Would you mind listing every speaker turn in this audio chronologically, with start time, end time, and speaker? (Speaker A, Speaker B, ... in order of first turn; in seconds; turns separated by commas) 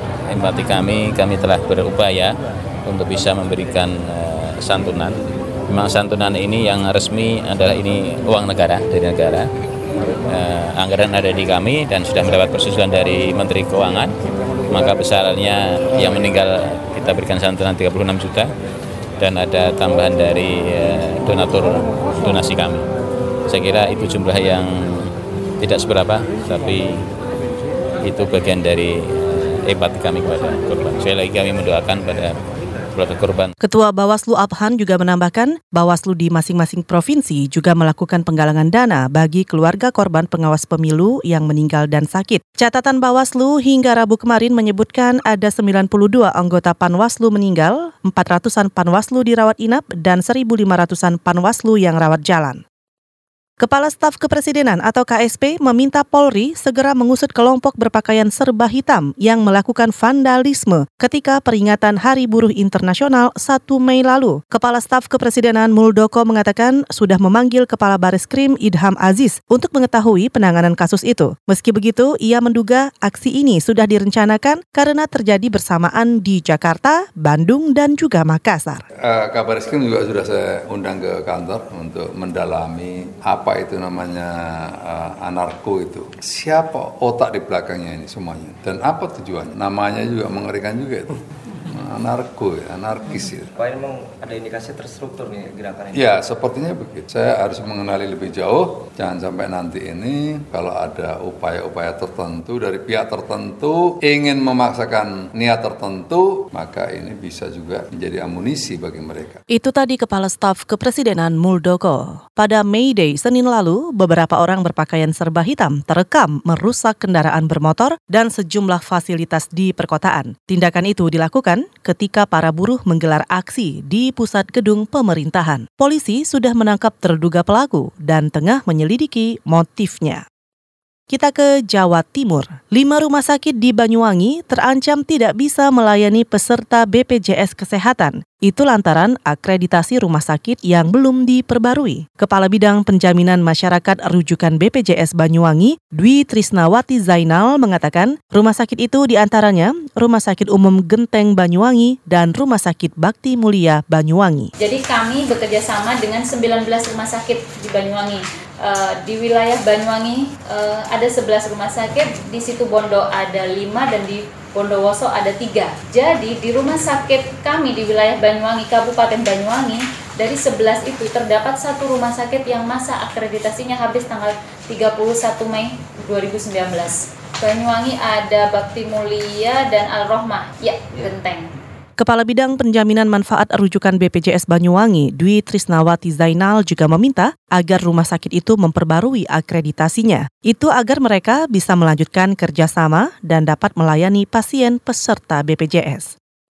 Speaker A: 0.3-2.3, Speaker A: 2.9-9.5, Speaker A: 10.3-14.1, Speaker A: 14.7-18.5, Speaker A: 19.2-22.9, Speaker A: 23.5-27.1, Speaker A: 28.0-32.4, Speaker A: 32.9-33.5, Speaker B: 33.6-52.6, Speaker B: 53.6-78.8, Speaker C: 79.0-93.5, Speaker D: 93.6-96.0, Speaker C: 95.9-109.4, Speaker B: 109.5-130.2, Speaker B: 131.1-154.5, Speaker E: 154.6-181.5, Speaker B: 182.0-196.2